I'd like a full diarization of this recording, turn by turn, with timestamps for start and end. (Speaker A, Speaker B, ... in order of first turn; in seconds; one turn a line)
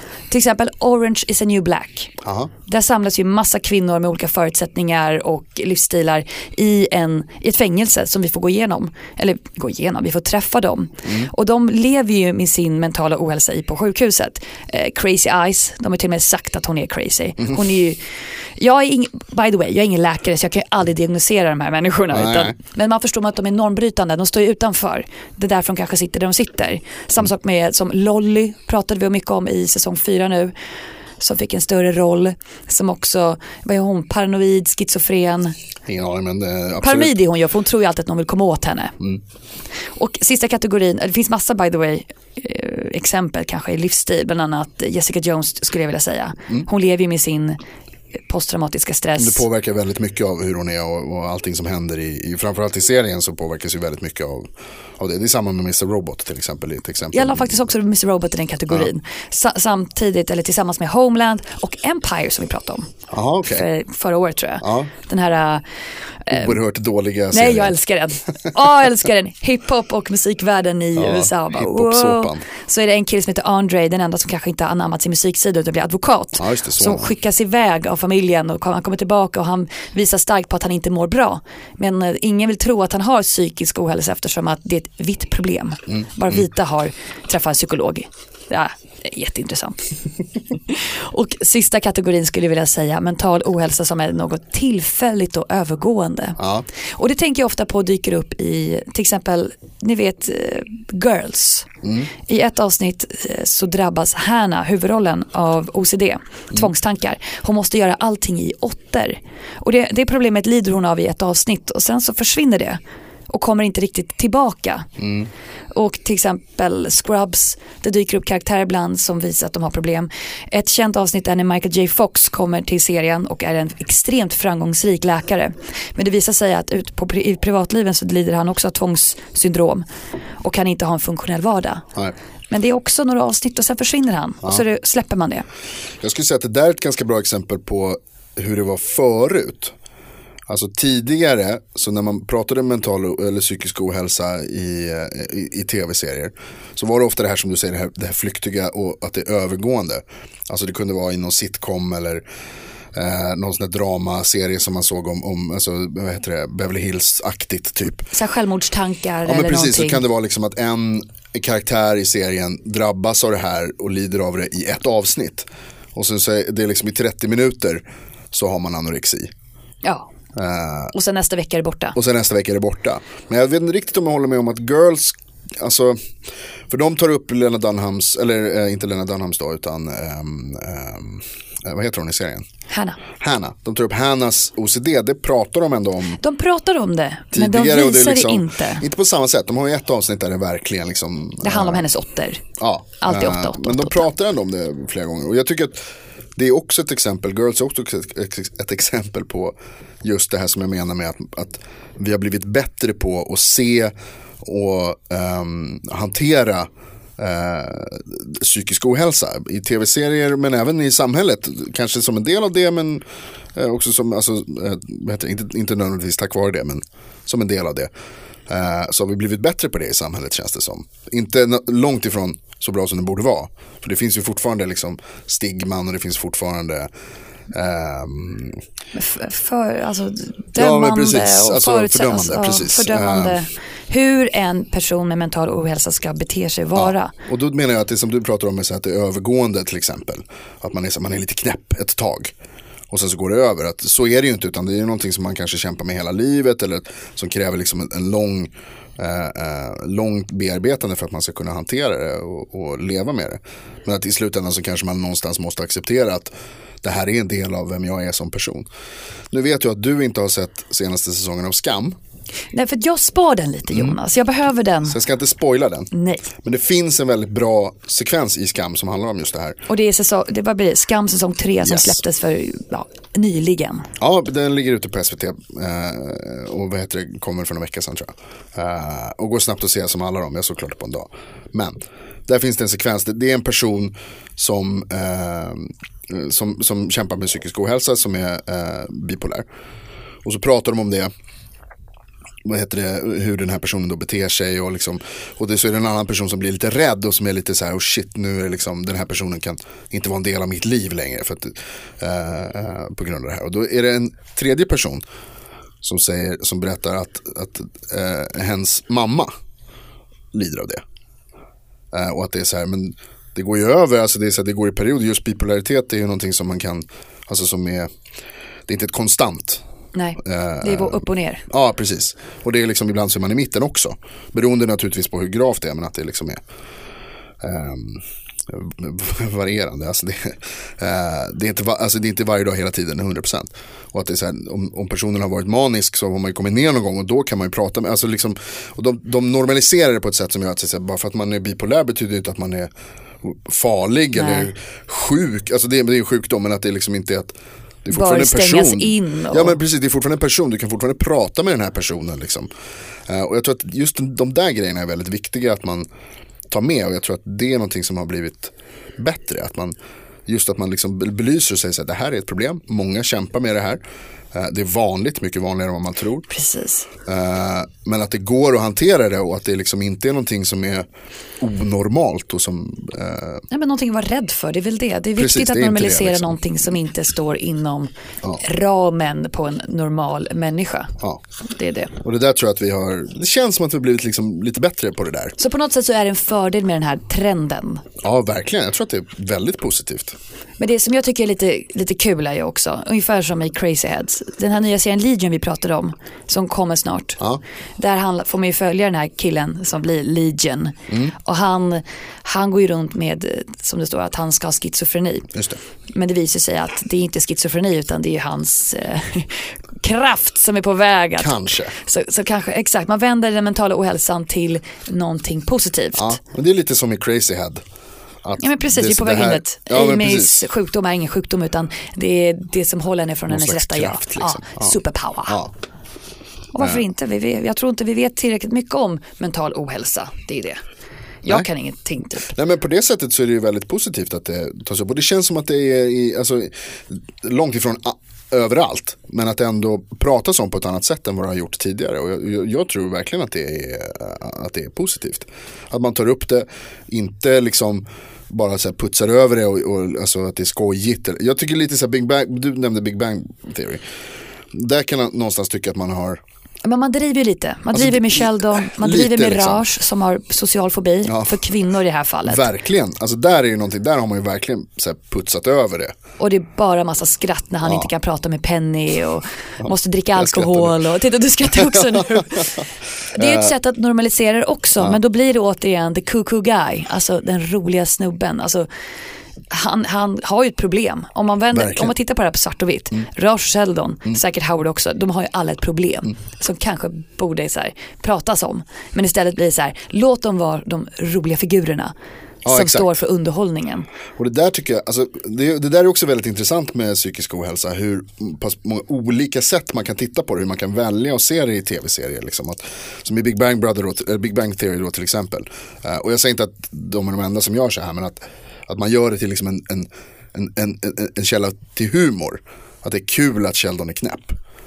Speaker A: 0.3-2.1
Speaker B: 2.2-2.5
Speaker A: 2.7-18.0
Speaker B: 11.0-11.3
Speaker A: 18.6-30.5
Speaker B: 22.1-22.5
Speaker A: 31.2-35.5
Speaker B: 35.9-37.1
Speaker A: 36.8-39.0
Speaker A: 40.0-47.6
Speaker A: 48.3-49.4
Speaker B: 49.2-57.6
Speaker A: 57.1-62.9
Speaker B: 63.1-63.6
Speaker A: 63.4-65.6
Speaker B: 64.6-64.9
Speaker A: 66.2-66.5
Speaker B: 66.3-67.8
Speaker A: 67.3-89.9
Speaker B: 71.0-72.5
Speaker B: 76.4-77.1
Speaker B: 85.9-86.4
Speaker A: 90.7-96.4
Speaker B: 96.4-96.7
Speaker A: 96.9-114.9
Speaker B: 101.8-102.1
Speaker B: 115.0-115.3
Speaker A: 115.7-129.8
Speaker A: 130.4-131.8
Speaker A: 132.5-135.4
Speaker B: 136.0-139.7
Speaker B: 140.5-152.2
Speaker B: 152.9-158.1
Speaker A: 158.1-160.0
Speaker B: 159.2-169.3
Speaker A: 169.8-170.1
Speaker B: 170.3-170.9
Speaker A: 170.9-172.0
Speaker B: 171.9-176.0
Speaker B: 176.7-182.5
Speaker A: 182.7-183.0
Speaker B: 183.2-186.2
Speaker A: 186.2-188.8
Speaker B: 187.3-191.8
Speaker A: 191.4-192.4
Speaker B: 192.6-195.8
Speaker A: 193.0-194.1
Speaker B: 196.3-213.0
Speaker B: 213.6-217.9
Speaker B: 218.5-226.9
Speaker B: 227.5-228.6
Speaker A: 228.9-237.1
Speaker B: 230.6-233.4
Speaker B: 236.7-242.3
Speaker B: 242.9-256.3
Speaker B: 256.8-258.7
Speaker B: 259.3-262.0
Speaker A: 262.5-265.0
Speaker B: 263.7-264.0
Speaker B: 264.9-269.6
Speaker A: 265.9-266.2
Speaker A: 269.7-273.9
Speaker B: 271.6-272.0
Speaker B: 274.0-289.4
Speaker B: 290.2-291.1
Speaker B: 292.4-305.0
Speaker B: 305.8-309.3
Speaker B: 310.3-310.8
Speaker B: 311.9-317.9
Speaker B: 318.7-319.6
Speaker A: 319.9-321.4
Speaker B: 320.2-326.4
Speaker B: 327.4-342.7
Speaker B: 343.2-352.5
Speaker A: 344.1-344.5
Speaker A: 347.9-349.6
Speaker B: 353.1-355.9
Speaker B: 356.5-359.7
Speaker B: 360.2-363.8
Speaker B: 364.3-366.3
Speaker A: 366.3-366.9
Speaker B: 367.1-370.9
Speaker B: 371.4-373.4
Speaker A: 373.5-377.9
Speaker B: 375.2-376.4
Speaker A: 378.4-380.9
Speaker A: 381.5-381.9
Speaker B: 382.0-385.4
Speaker A: 385.4-387.8
Speaker B: 388.0-390.1
Speaker A: 390.6-397.2
Speaker A: 397.8-405.3
Speaker B: 405.3-405.6
Speaker A: 405.9-416.2
Speaker B: 411.2-411.7
Speaker B: 415.9-417.6
Speaker B: 418.2-420.5
Speaker A: 418.4-425.4
Speaker B: 423.3-424.8
Speaker A: 426.5-430.6
Speaker A: 431.2-432.3
Speaker B: 432.2-453.8
Speaker B: 454.5-456.2
Speaker A: 456.6-462.4
Speaker B: 457.7-459.6
Speaker B: 461.1-461.4
Speaker B: 462.2-465.9
Speaker A: 466.2-472.6
Speaker B: 469.6-470.8
Speaker B: 471.6-472.2
Speaker A: 473.1-478.7
Speaker B: 473.1-473.5
Speaker A: 479.5-491.9
Speaker B: 481.5-481.9
Speaker B: 492.4-492.9
Speaker A: 492.5-493.9
Speaker B: 494.1-514.4